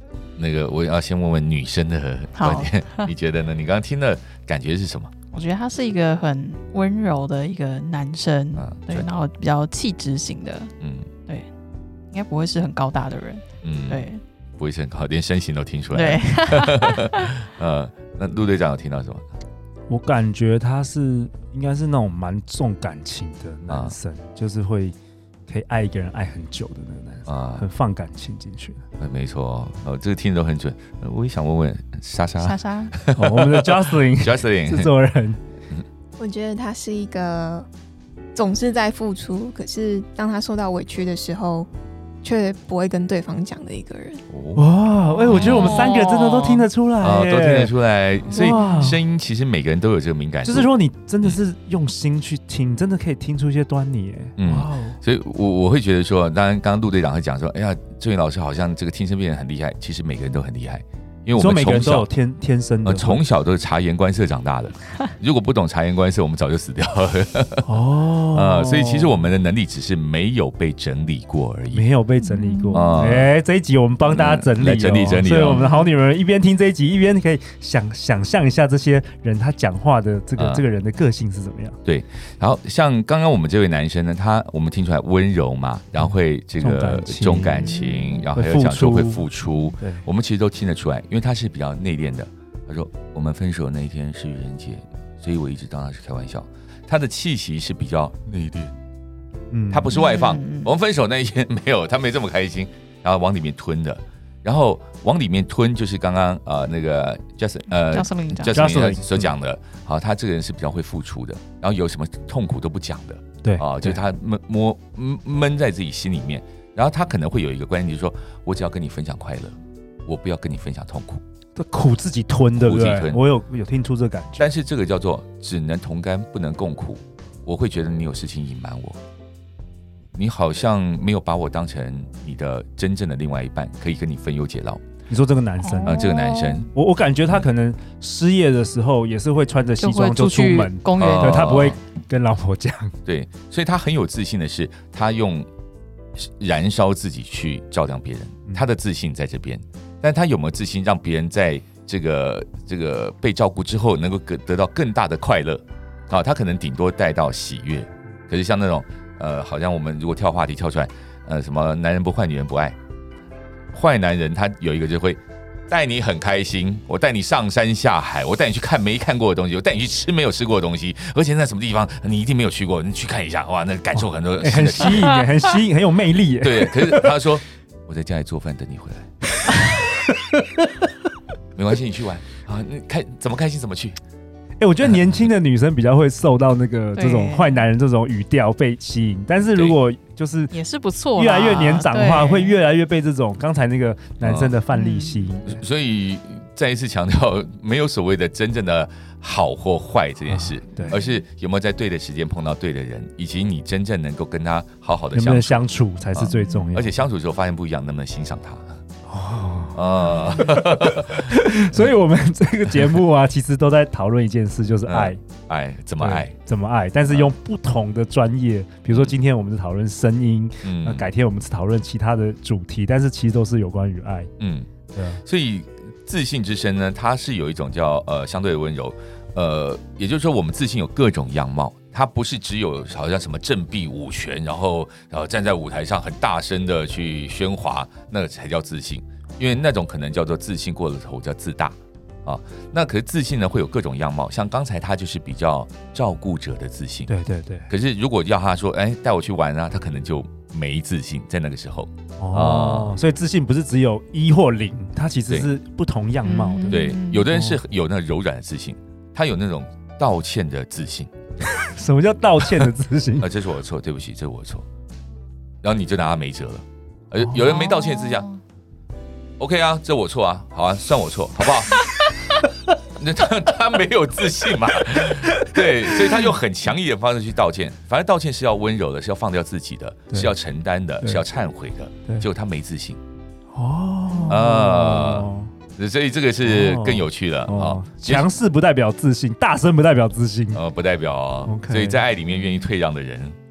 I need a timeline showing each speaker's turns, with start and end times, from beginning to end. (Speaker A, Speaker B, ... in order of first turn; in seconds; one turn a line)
Speaker A: 0.4-5.1
Speaker B: 2.4-3.1
Speaker B: 5.3-10.7
Speaker A: 8.6-9.1
Speaker A: 10.8-11.1
Speaker B: 12.1-14.2
Speaker A: 13.6-14.1
Speaker A: 14.6-19.3
Speaker B: 15.9-17.3
Speaker C: 19.9-24.9
Speaker A: 23.7-24.0
Speaker C: 25.5-28.8
Speaker A: 27.3-27.7
Speaker A: 29.0-34.9
Speaker B: 32.4-33.0
Speaker C: 33.1-35.4
Speaker D: 36.2-37.7
Speaker D: 38.4-41.7
Speaker D: 42.2-44.2
Speaker A: 44.3-44.7
Speaker C: 44.6-47.7
Speaker B: 45.1-46.7
Speaker A: 45.2-45.9
Speaker A: 47.0-50.7
Speaker B: 48.3-48.6
Speaker C: 48.3-49.0
Speaker C: 50.4-55.0
Speaker A: 54.4-62.1
Speaker C: 61.4-63.2
Speaker A: 62.8-67.7
Speaker C: 67.6-69.2
Speaker A: 68.3-71.8
Speaker C: 71.7-81.8
Speaker B: 72.2-72.9
Speaker A: 72.7-73.3
Speaker A: 74.1-75.7
Speaker B: 75.5-75.9
Speaker A: 80.4-80.6
Speaker A: 81.8-98.7
Speaker C: 86.0-87.8
Speaker B: 87.8-88.2
Speaker C: 88.3-89.3
Speaker C: 89.8-90.0
Speaker C: 99.5-99.9
Speaker A: 99.7-121.2
Speaker B: 99.9-100.7
Speaker B: 107.8-108.6
Speaker C: 108.5-109.3
Speaker C: 113.4-114.0
Speaker C: 121.6-124.5
Speaker A: 122.6-123.2
Speaker A: 124.4-129.0
Speaker A: 130.1-134.8
Speaker C: 135.1-136.1
Speaker B: 135.6-136.7
Speaker A: 135.9-136.7
Speaker C: 136.7-142.9
Speaker B: 139.8-141.4
Speaker A: 141.0-141.8
Speaker A: 143.1-145.5
Speaker A: 146.2-162.8
Speaker A: 163.7-175.2
Speaker C: 174.0-177.1
Speaker A: 176.4-179.1
Speaker A: 181.6-184.0
Speaker C: 184.6-190.5
Speaker B: 186.9-187.7
Speaker B: 190.5-192.6
Speaker C: 191.2-195.6
Speaker A: 194.2-194.6
Speaker B: 194.7-195.3
Speaker A: 195.4-208.8
Speaker C: 200.3-200.9
Speaker B: 200.8-201.1
Speaker C: 205.1-207.0
Speaker C: 209.1-215.2
Speaker A: 209.7-211.9
Speaker A: 214.9-216.3
Speaker C: 216.0-224.3
Speaker A: 217.1-217.3
Speaker A: 218.9-219.2
Speaker A: 220.6-221.1
Speaker A: 224.4-224.7
Speaker C: 224.9-225.2
Speaker A: 225.2-247.1
Speaker C: 247.1-247.7
Speaker A: 247.7-253.0
Speaker C: 252.2-256.8
Speaker B: 256.2-257.2
Speaker A: 256.6-261.1
Speaker C: 257.3-257.6
Speaker C: 261.5-263.3
Speaker A: 263.2-264.7
Speaker A: 265.6-268.3
Speaker B: 267.4-268.4
Speaker A: 269.4-271.9
Speaker A: 272.9-283.0
Speaker C: 281.0-281.4
Speaker C: 283.5-285.5
Speaker A: 284.3-288.3
Speaker C: 286.4-290.6
Speaker A: 290.5-293.4
Speaker C: 291.5-292.0